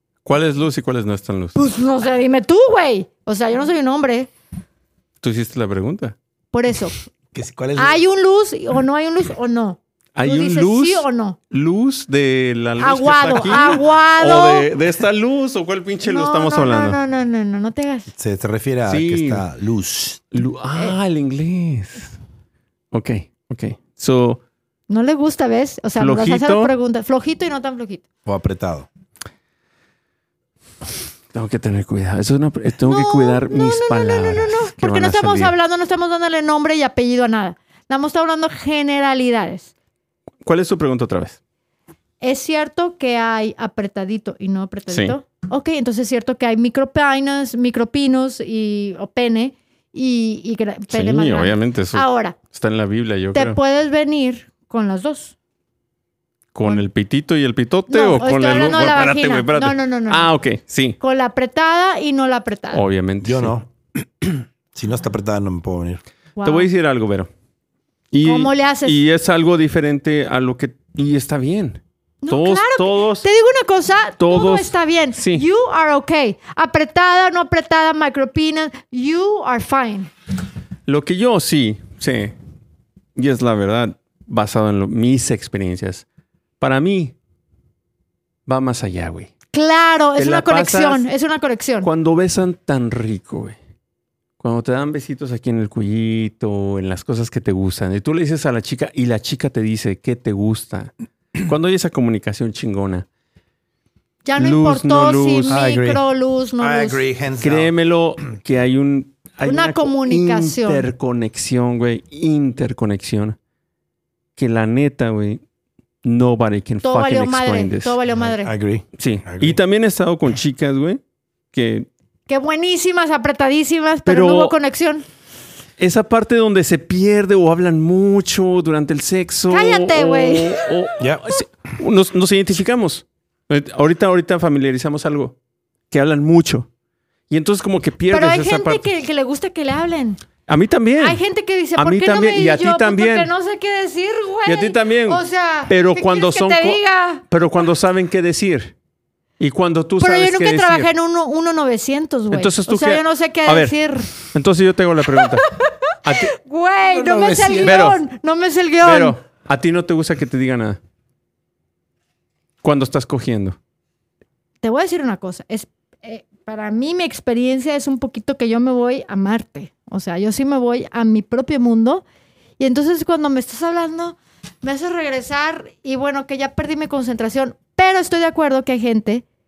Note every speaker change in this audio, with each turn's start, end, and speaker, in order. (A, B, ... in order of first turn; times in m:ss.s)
0:00.2-0:01.6 A
0:01.6-0:04.3 B
0:05.2-0:06.2 A
0:06.5-0:06.9 B
0:07.3-0:08.0 C
0:07.8-0:11.4 B
0:10.2-0:17.0 A
0:12.8-0:14.7 B
0:16.0-0:18.1 B
0:18.1-0:20.2 C
0:18.9-0:19.4 A
0:20.3-0:22.1 A
0:22.9-0:24.4 A
0:24.9-0:28.0 B
0:26.0-0:26.7 A
0:28.2-0:28.9 C
0:31.3-0:35.5 A
0:32.8-0:39.7 B
0:40.4-0:41.4 A
0:42.2-0:52.4 B
0:44.9-0:45.2 A
0:50.9-0:53.6 A
0:53.3-0:55.4 B
0:56.5-1:01.0 A
0:57.9-1:00.3 B
1:01.0-1:02.8 B
1:02.7-1:03.5 A
1:03.2-1:06.0 C
1:06.4-1:06.7 B
1:06.4-1:07.3 A
1:08.1-1:13.2 A
1:08.2-1:09.0 B
1:12.2-1:20.1 B
1:14.2-1:15.4 A
1:20.9-1:22.4 A
1:23.2-1:26.0 A
1:26.6-1:27.1 A
1:28.5-1:29.3 A
1:29.5-1:31.9 B
1:30.2-1:31.0 A
1:31.8-1:33.6 A
1:34.4-1:43.0 A
1:44.2-1:47.0 B
1:44.4-1:45.6 A
1:45.5-1:46.0 C
1:46.6-1:47.7 C
1:47.4-1:53.4 A
1:49.4-1:50.9 B
1:54.4-1:55.4 A
1:56.0-1:58.0 A
1:56.8-1:58.5 B
1:58.2-1:59.6 C
1:59.0-2:01.0 A
2:01.5-2:01.9 A
2:02.3-2:05.0 B
2:04.0-2:04.5 A
2:05.8-2:15.4 A
2:09.5-2:10.9 B
2:15.9-2:16.7 A
2:17.3-2:18.8 A
2:18.1-2:20.2 B
2:20.5-2:21.2 A
2:21.0-2:27.2 B
2:21.7-2:23.3 A
2:24.4-2:28.7 A
2:29.4-2:30.9 A
2:30.0-2:34.1 B
2:32.3-2:35.5 A
2:35.1-2:39.2 B
2:36.0-2:36.3 A
2:36.8-2:37.8 C
2:37.6-2:38.0 A
2:38.8-2:40.8 A
2:42.6-2:43.6 A
2:44.6-2:52.0 B
2:52.6-2:59.2 B